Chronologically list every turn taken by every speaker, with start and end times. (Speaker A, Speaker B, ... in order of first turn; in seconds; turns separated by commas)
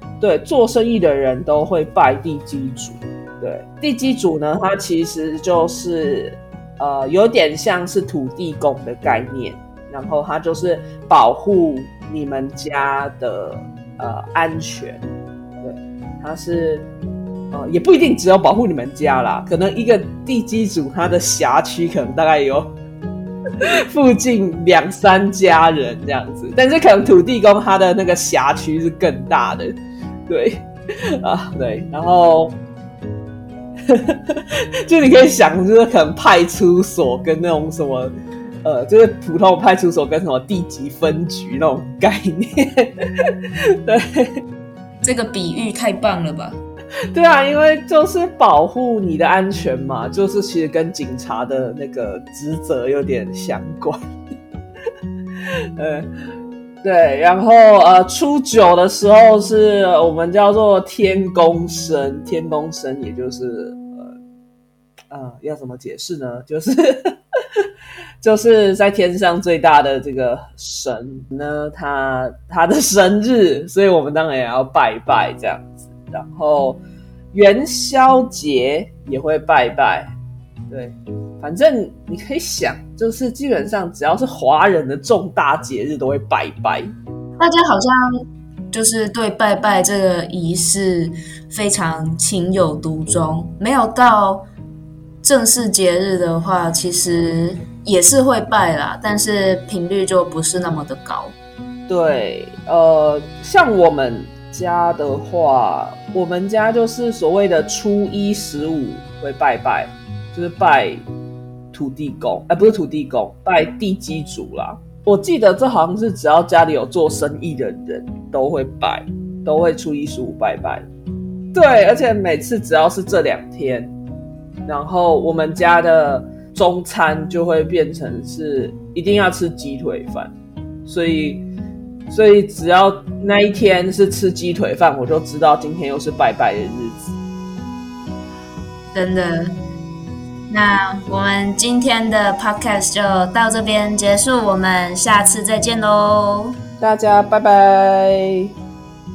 Speaker A: 0.2-15.0, Speaker A: 15.6-16.9, Speaker A: 17.5-22.7, Speaker A: 23.6-29.8, Speaker A: 30.3-32.5, Speaker A: 33.9-38.1, Speaker A: 38.6-43.3, Speaker A: 43.8-44.3, Speaker B: 45.0-46.6, Speaker A: 47.1-54.0, Speaker A: 55.8-56.1, Speaker A: 56.8-64.1, Speaker A: 65.1-67.1, Speaker A: 68.2-76.8, Speaker A: 77.3-80.1, Speaker A: 80.7-86.9, Speaker B: 87.4-88.0, Speaker B: 88.7-94.5, Speaker B: 95.2-101.3, Speaker A: 101.9-111.0, Speaker A: 111.7-120.8, Speaker A: 121.5-123.9, Speaker A: 124.7-130.3, Speaker A: 130.8-131.4, Speaker A: 132.1-137.1, Speaker B: 138.9-139.5, Speaker B: 140.5-146.6, Speaker A: 146.8-148.5